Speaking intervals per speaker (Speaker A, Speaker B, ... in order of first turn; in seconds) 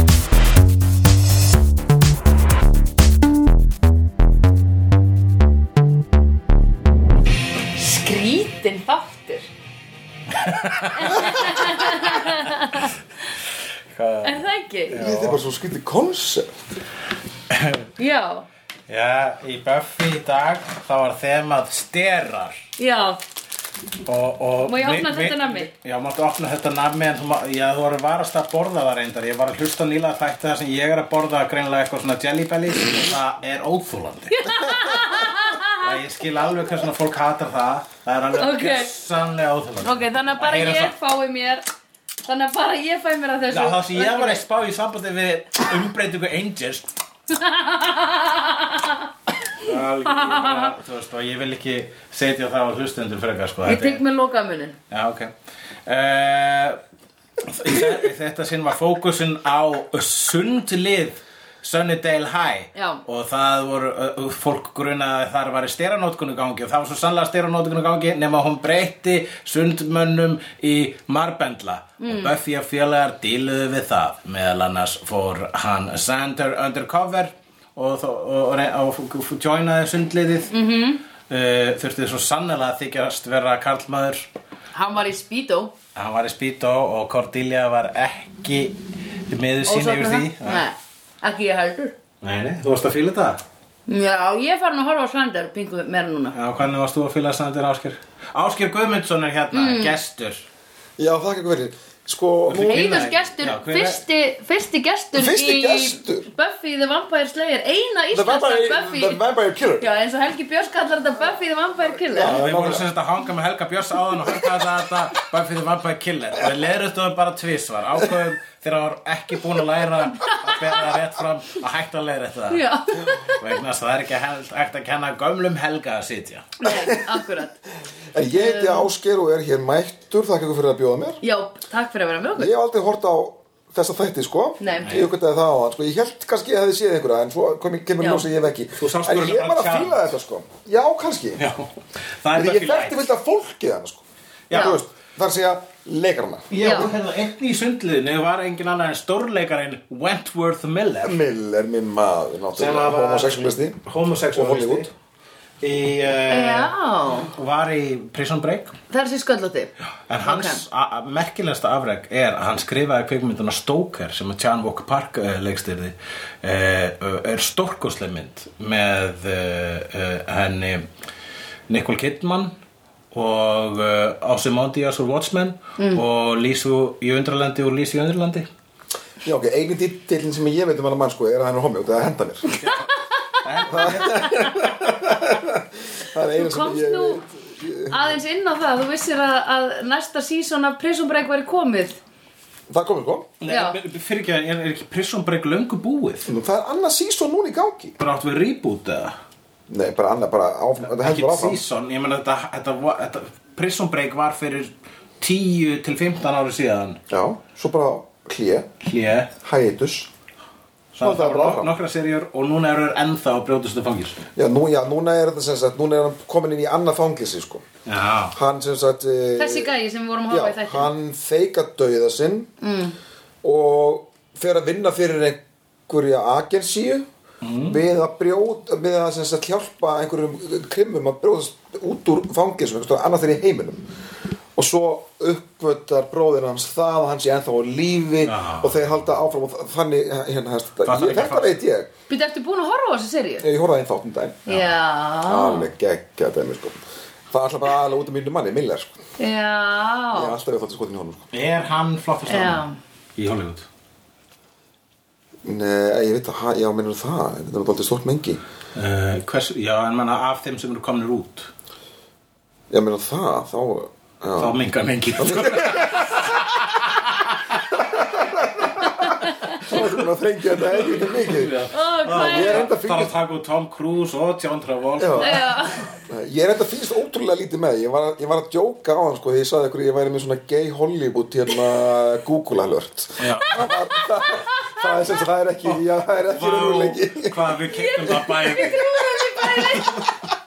Speaker A: 7.8-9.5, 10.9-12.9, 14.2-15.0, 18.0-18.5, 22.8-23.2, 24.7-25.7, 34.3-35.9, 38.4-38.9, 39.8-41.6, 42.3-44.4, 47.3-49.1, 50.0-50.7, 53.6-54.8, 62.8-63.0, 72.0-72.3, 80.5-81.0, 84.7-85.7, 89.7-92.0, 93.9-96.4, 99.5-100.0, 102.5-109.2, 109.8-112.4, 120.2-120.6, 122.5-123.5, 126.6-127.6, 128.3-128.9, 131.2-132.5, 134.6-135.1, 138.0-138.2, 144.5-144.8, 146.6-146.9, 156.3-157.3, 158.9-159.7, 160.2-160.6, 175.8-176.0, 182.7-184.5, 186.3-187.2, 187.9-192.0, 193.5-193.8, 219.4-220.9, 222.6-223.0, 242.1-243.5, 244.5-245.7, 249.2-250.4, 252.3-252.8, 269.0-269.6, 271.7-272.7, 275.2-275.9, 283.5-284.8, 287.7-290.2
Speaker B: 10.4-12.3, 13.9-15.4, 17.5-17.9, 18.9-22.6, 24.1-34.7, 35.7-40.9, 43.5-47.0, 49.6-54.0, 54.9-55.3, 55.9-56.8, 57.5-80.5, 81.3-84.3, 86.0-88.8, 89.3-90.6, 92.2-93.4, 96.3-100.5, 102.5-104.0, 112.2-122.6, 123.3-126.5, 134.8-135.1, 138.8-140.1, 141.4-143.1, 144.5-144.8, 146.5-151.2, 152.6-154.9, 155.6-156.7, 157.3-158.8, 160.1-170.9, 171.7-172.6, 173.1-178.5, 182.5-184.4, 193.4-196.3, 198.0-199.2, 200.9-207.0, 208.8-209.3, 211.0-214.2, 217.9-218.3, 227.4-227.8, 238.2-239.2, 240.8-241.6, 244.5-244.7, 251.3-252.6, 253.2-253.7, 258.8-261.5, 264.4-267.7, 269.6-269.9, 270.7-275.5, 283.2-283.6, 285.6-290.1
Speaker C: 14.9-16.5, 101.0-102.9, 105.1-106.3, 108.1-109.9, 112.1-112.8, 126.7-127.3, 128.1-131.2, 132.4-141.4, 142.3-146.9, 151.0-153.8, 154.3-154.9, 179.2-182.5, 183.7-188.2, 192.7-193.3, 196.3-198.0, 199.7-201.6, 207.1-208.7, 209.4-210.1, 211.0-211.7, 214.3-217.7, 218.3-219.7, 220.3-222.5, 223.4-227.1, 227.7-233.8, 234.6-241.9, 243.4-244.5, 245.3-246.8, 247.3-248.9, 250.1-251.2, 255.4-258.4, 262.7-264.6, 265.2-266.3, 267.7-271.6, 272.1-273.1, 275.0-287.3